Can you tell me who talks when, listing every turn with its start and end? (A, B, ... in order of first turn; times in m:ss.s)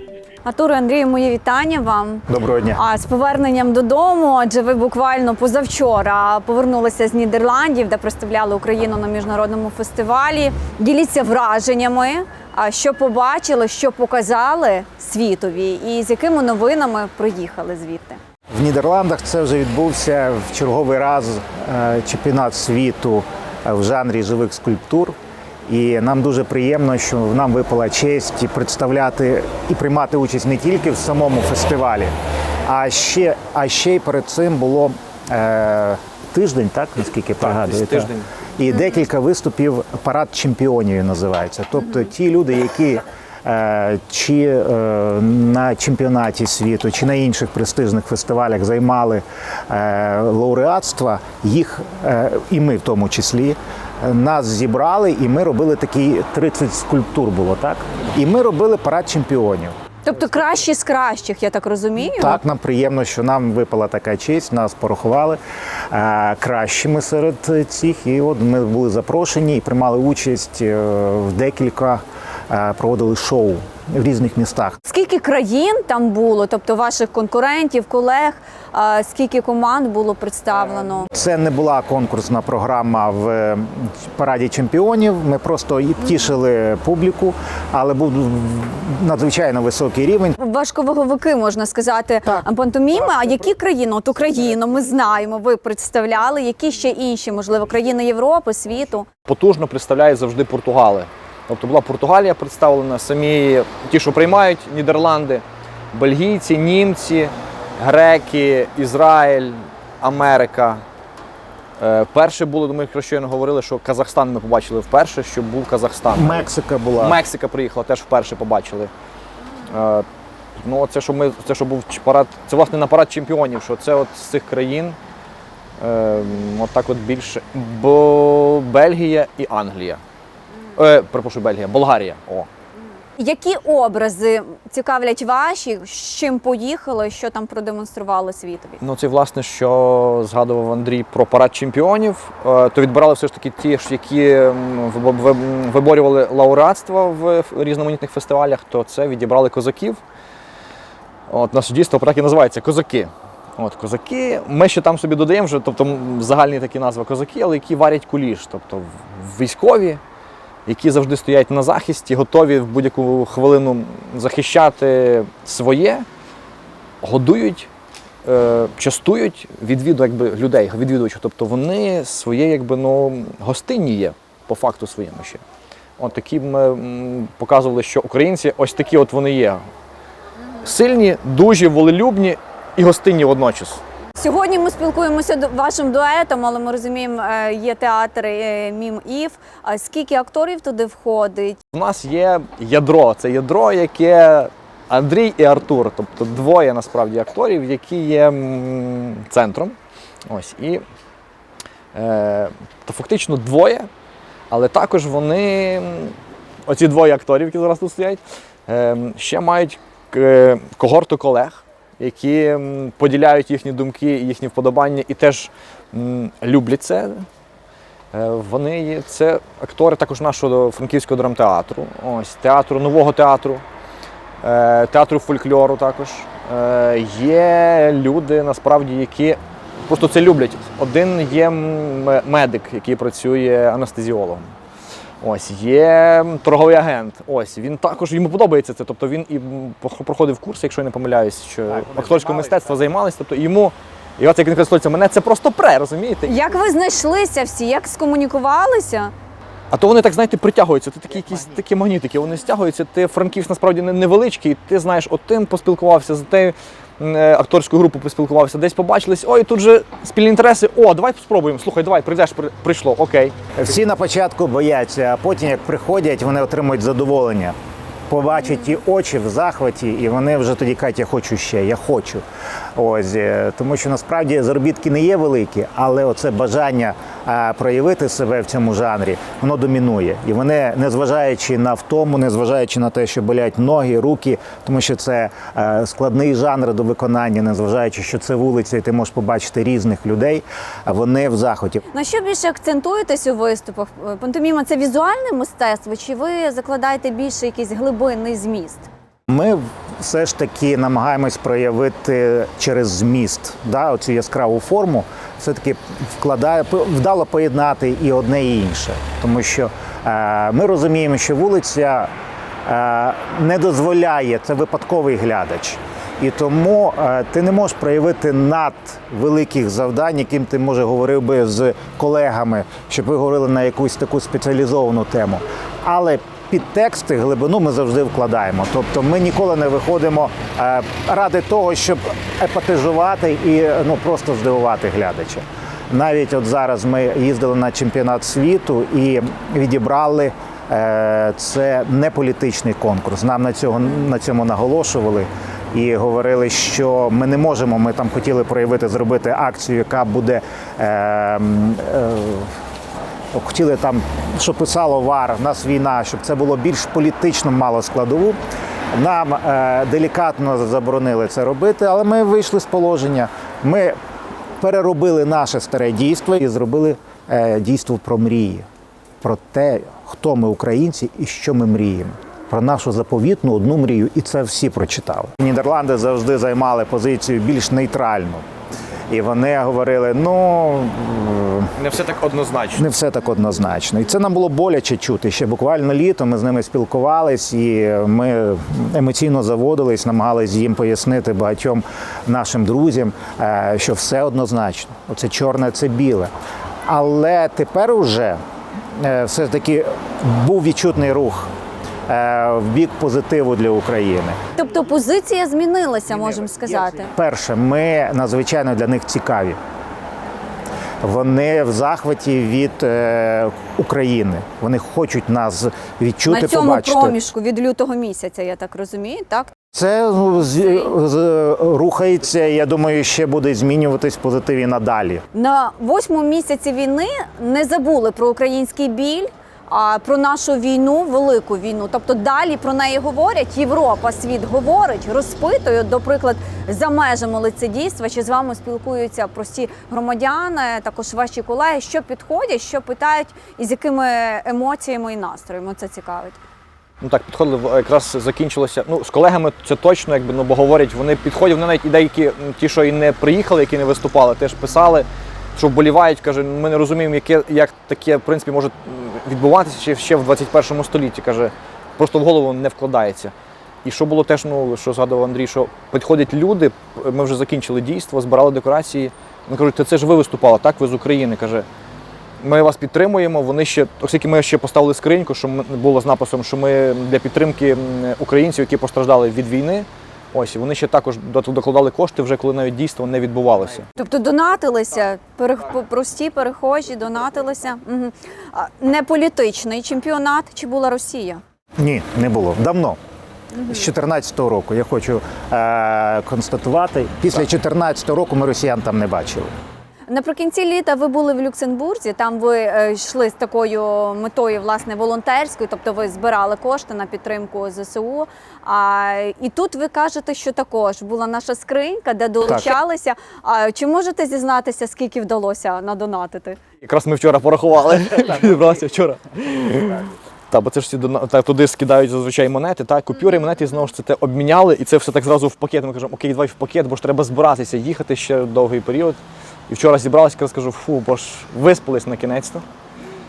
0:00.4-0:18.2 A
0:02.3-0:02.8 B
0:18.5-0:25.1 B
0:25.7-0:32.1 B
0:32.6-0:59.7 B
0:37.4-0:38.2 C
1:00.0-1:02.4 A
1:02.0-1:05.4 B
1:05.9-1:14.8 B
1:14.8-1:21.1 A
1:21.1-1:30.4 B
1:30.4-1:39.1 A
1:39.2-1:50.8 C
1:51.8-1:58.9 C
1:56.1-1:57.2 B
1:59.7-2:00.0 C
2:00.6-2:05.0 C
2:05.8-2:10.0 C
2:10.8-2:12.5 C
2:13.2-2:18.8 A
2:18.8-2:30.0 C
2:31.3-2:40.0 C
2:40.7-2:46.0 C
2:47.0-2:47.7 C
2:48.2-2:55.4 C
2:56.0-2:59.6 C
3:00.6-3:03.8 C
3:04.2-3:11.6 A
3:11.7-3:19.8 C
3:20.3-3:20.8 C
3:21.9-3:23.9 C
3:24.5-3:26.1 C
3:26.7-3:37.2 C
3:38.1-3:43.6 C
3:44.4-3:54.5 C
3:55.2-4:06.4 C
4:06.2-4:09.1 A
4:09.7-4:23.3 C
4:23.5-4:27.5 B
4:28.1-4:32.2 B
4:32.7-4:51.8 B
4:51.9-4:58.9 A
4:59.3-5:12.1 B
5:12.6-5:52.5 B
5:53.3-5:58.4 B
5:58.9-6:03.9 B
6:04.6-6:08.6 B
6:09.2-6:18.4 B
6:19.1-6:21.7 B
6:21.8-6:22.8 C
6:22.7-6:36.3 B
6:36.9-6:38.4 B
6:39.0-6:41.5 B
6:42.1-6:44.4 B
6:44.6-6:47.1 A
6:47.0-6:49.6 B
6:51.0-6:57.2 B
6:56.2-6:59.5 A
6:59.7-7:05.2 B
7:05.3-7:26.4 A
7:27.0-7:43.3 C
7:43.8-7:51.6 C
7:52.4-8:03.8 C
8:04.0-8:11.4 A
8:11.8-8:13.0 B
8:13.5-8:19.5 B
8:20.1-8:36.6 A
8:32.4-8:32.7 B
8:36.8-8:52.6 C